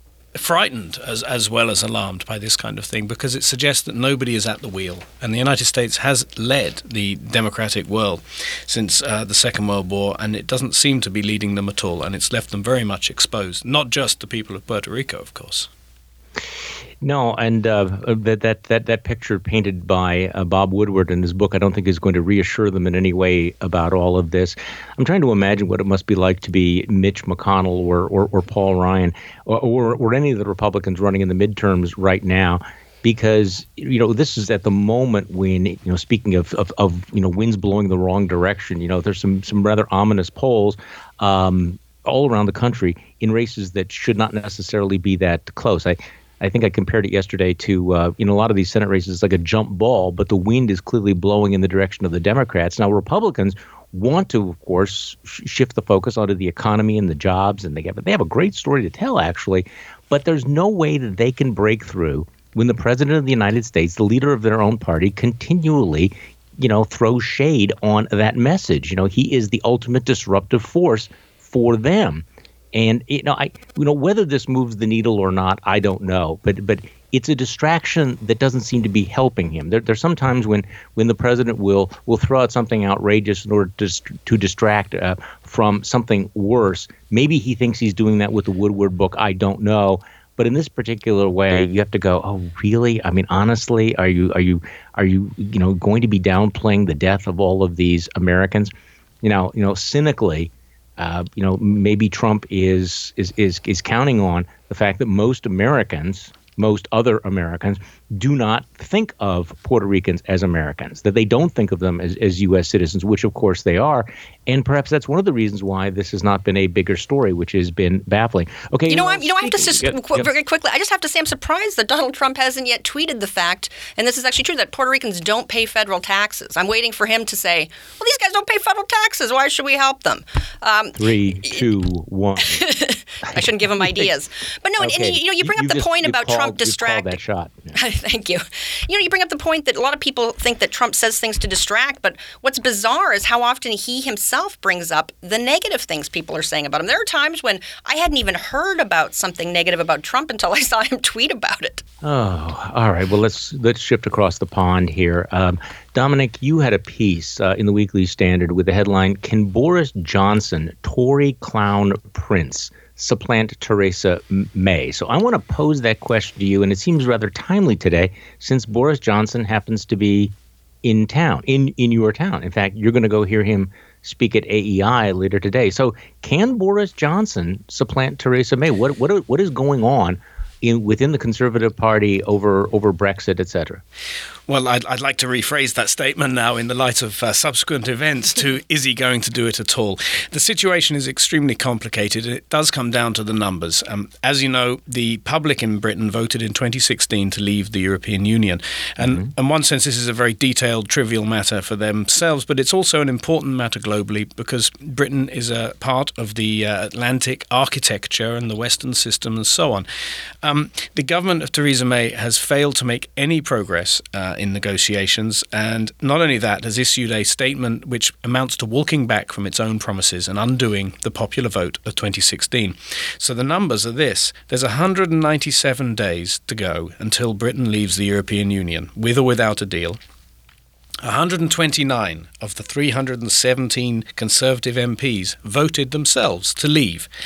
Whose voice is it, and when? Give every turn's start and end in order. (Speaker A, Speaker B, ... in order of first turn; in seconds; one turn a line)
Speaker A: 0.3-15.7
Speaker B: 17.0-98.7
Speaker B: 99.2-120.3
Speaker C: 118.9-131.6
Speaker B: 130.9-132.7
Speaker C: 132.5-137.2
Speaker B: 133.3-134.1
Speaker B: 134.8-137.8
Speaker C: 137.7-151.8
Speaker B: 152.0-183.8
Speaker A: 184.5-209.8
Speaker A: 210.4-230.0
Speaker A: 231.0-237.1